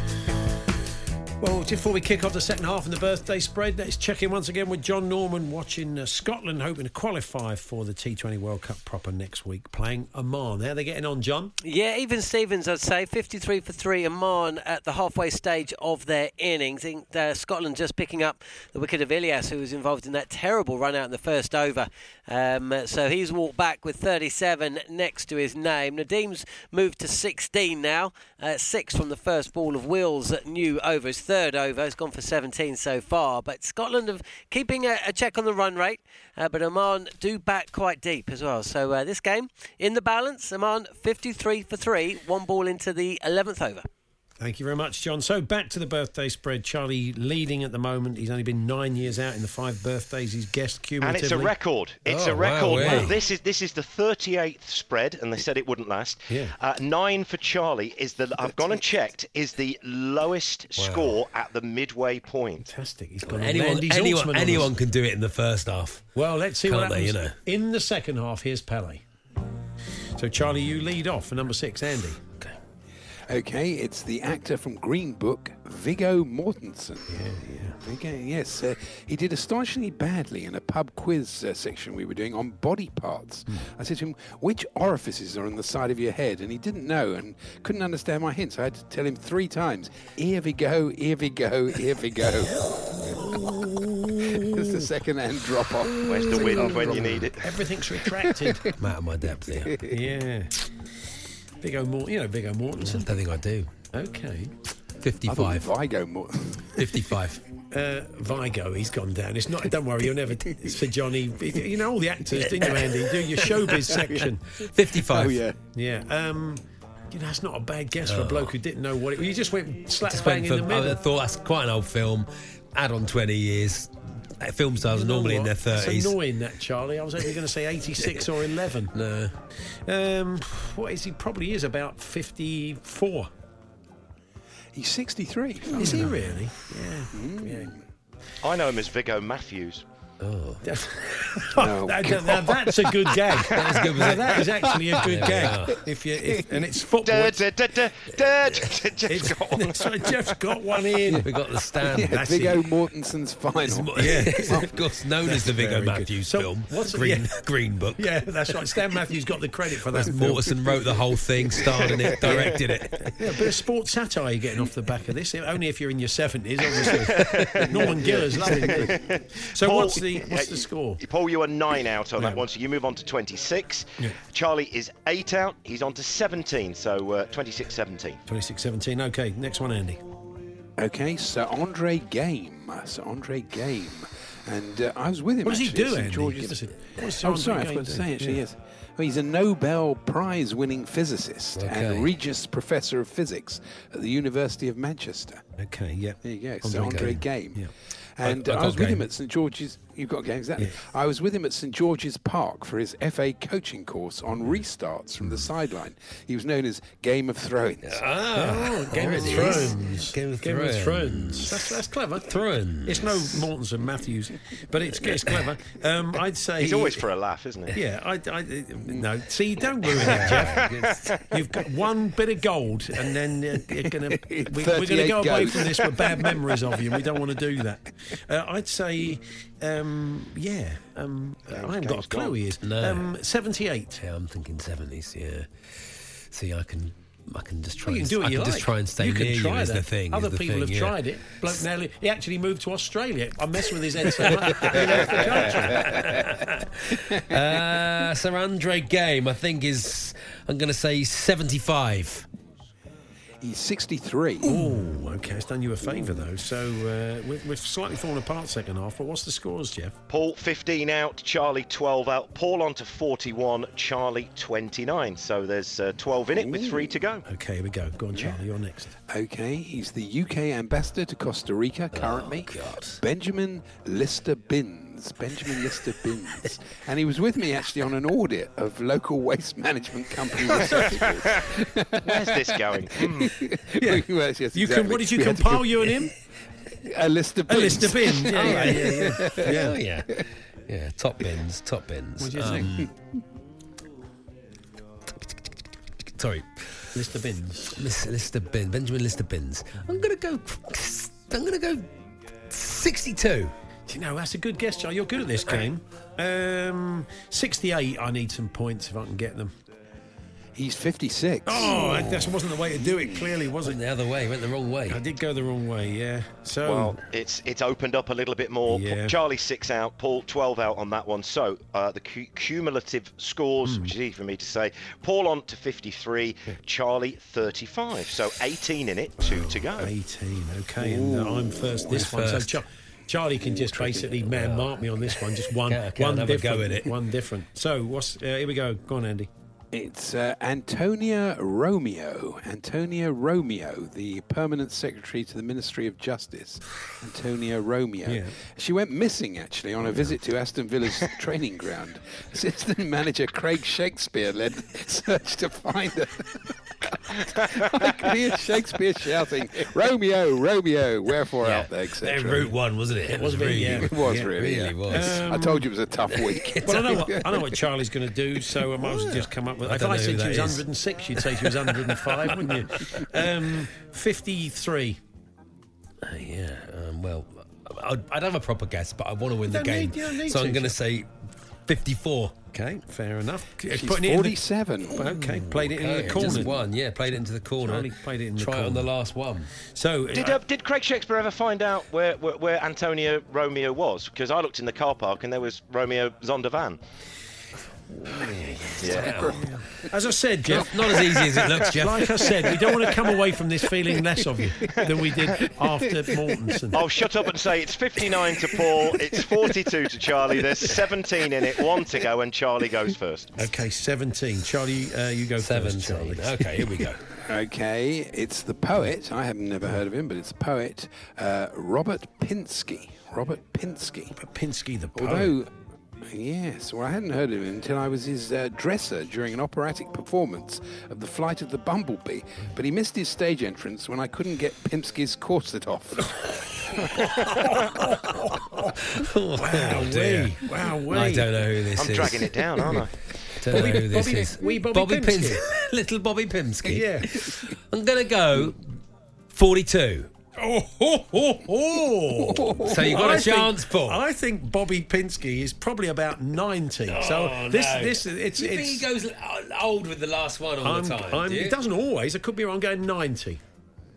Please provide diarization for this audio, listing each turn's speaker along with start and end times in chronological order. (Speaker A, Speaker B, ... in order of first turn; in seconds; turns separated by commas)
Speaker A: 1.4-11.5, Speaker B: 11.6-43.9, Speaker A: 44.4-51.5, Speaker C: 51.0-62.7, Speaker D: 52.0-53.1, Speaker A: 52.7-53.1, Speaker A: 56.3-56.5, Speaker D: 60.8-61.2, Speaker A: 62.6-64.7, Speaker D: 63.2-66.1, Speaker A: 66.1-69.0, Speaker D: 66.6-67.3, Speaker A: 70.2-72.2, Speaker E: 73.3-77.2, Speaker A: 77.1-77.8, Speaker E: 77.8-92.5, Speaker A: 93.1-93.9, Speaker D: 93.1-93.5, Speaker E: 94.3-97.3, Speaker D: 95.9-96.9, Speaker C: 96.0-97.4, Speaker A: 97.3-98.7, Speaker E: 98.2-98.7, Speaker D: 98.8-99.8, Speaker A: 99.8-100.6, Speaker A: 101.6-103.1, Speaker D: 102.8-103.7, Speaker A: 103.9-104.5, Speaker D: 105.0-105.7, Speaker E: 105.3-107.1, Speaker D: 106.7-107.4, Speaker A: 107.7-114.4, Speaker D: 112.6-112.9, Speaker D: 114.6-115.4, Speaker E: 115.0-115.6, Speaker A: 115.7-121.0, Speaker D: 118.0-118.5, Speaker D: 120.0-126.1, Speaker A: 124.9-128.9, Speaker D: 128.9-129.3, Speaker A: 129.7-133.3, Speaker E: 134.7-136.1, Speaker A: 135.7-137.8, Speaker D: 135.8-136.2, Speaker E: 137.1-137.8, Speaker C: 138.4-139.8, Speaker D: 140.2-140.6, Speaker A: 140.6-147.4, Speaker E: 141.6-143.2, Speaker D: 143.5-144.5, Speaker D: 145.0-145.8, Speaker C: 147.0-149.9, Speaker A: 149.1-151.3, Speaker D: 151.2-152.2, Speaker E: 151.8-154.7, Speaker A: 152.0-152.6, Speaker D: 153.6-158.1, Speaker A: 153.9-154.7, Speaker A: 155.2-157.3, Speaker A: 158.0-160.6, Speaker D: 159.9-163.1, Speaker A: 162.2-171.0, Speaker C: 166.9-167.5, Speaker D: 167.2-167.7, Speaker C: 168.5-178.2, Speaker A: 172.2-172.4, Speaker A: 178.3-180.0, Speaker E: 180.8-195.4, Speaker A: 185.4-188.4, Speaker D: 191.6-192.1, Speaker A: 195.6-197.7, Speaker E: 196.2-197.6, Speaker E: 198.2-208.0, Speaker D: 198.2-199.1, Speaker D: 207.8-211.7, Speaker A: 208.3-217.1, Speaker D: 212.3-213.4, Speaker C: 216.6-217.7, Speaker A: 217.7-220.7, Speaker D: 219.9-221.2, Speaker A: 221.3-234.0, Speaker E: 224.1-226.5, Speaker C: 231.5-231.9, Speaker E: 231.9-232.2, Speaker D: 232.6-233.1, Speaker D: 234.0-235.5, Speaker D: 236.3-241.5, Speaker A: 237.8-246.4, Speaker D: 244.4-252.2, Speaker E: 244.5-246.0, Speaker E: 253.4-254.6, Speaker A: 254.4-259.9, Speaker C: 260.1-267.2, Speaker E: 266.3-267.0, Speaker A: 267.3-268.9, Speaker E: 269.1-286.1, Speaker D: 271.9-273.0, Speaker A: 280.5-281.0, Speaker C: 282.0-283.3, Speaker A: 283.8-286.1, Speaker E: 286.8-289.5, Speaker A: 287.5-289.8, Speaker D: 288.3-292.9, Speaker A: 292.2-292.7, Speaker D: 296.1-296.6, Speaker A: 296.9-297.8, Speaker D: 297.8-301.9, Speaker D: 302.5-303.5, Speaker A: 303.9-309.5, Speaker E: 310.5-312.1, Speaker A: 311.4-313.8, Speaker D: 311.8-312.3, Speaker E: 312.8-313.3, Speaker D: 313.6-315.0, Speaker A: 314.9-317.0, Speaker C: 316.6-329.9, Speaker A: 318.7-319.2, Speaker A: 323.6-323.9, Speaker A: 329.2-339.3, Speaker E: 330.8-332.1, Speaker D: 331.9-332.6, Speaker D: 333.5-336.9, Speaker E: 339.7-362.5, Speaker A: 348.1-348.3, Speaker D: 361.4-365.2, Speaker A: 363.1-364.3, Speaker E: 363.8-367.4, Speaker A: 364.9-365.7, Speaker D: 366.1-367.1, Speaker A: 366.6-375.0, Speaker D: 368.8-370.6, Speaker D: 371.2-373.0, Speaker D: 376.0-381.1, Speaker A: 379.4-380.8, Speaker D: 381.7-382.4, Speaker A: 382.5-386.6, Speaker E: 383.7-385.0, Speaker D: 384.9-389.5, Speaker A: 387.6-388.9, Speaker A: 389.7-390.4, Speaker C: 390.1-396.8, Speaker D: 398.1-399.4, Speaker C: 398.8-399.1, Speaker A: 398.9-400.9, Speaker D: 400.5-402.3, Speaker A: 401.6-406.9, Speaker C: 406.7-413.3, Speaker E: 408.5-409.4, Speaker A: 413.4-416.7, Speaker D: 415.4-417.0, Speaker E: 417.2-424.1, Speaker A: 424.1-425.4, Speaker E: 424.9-425.5, Speaker E: 426.1-436.1, Speaker A: 437.3-438.7, Speaker D: 438.9-442.8, Speaker A: 439.4-441.3, Speaker C: 441.7-442.9, Speaker D: 443.4-448.6, Speaker A: 443.5-445.4, Speaker A: 446.6-447.2, Speaker D: 449.3-450.1, Speaker A: 450.4-458.9, Speaker E: 452.3-452.8, Speaker D: 452.6-454.0, Speaker D: 456.9-461.6, Speaker A: 460.6-463.4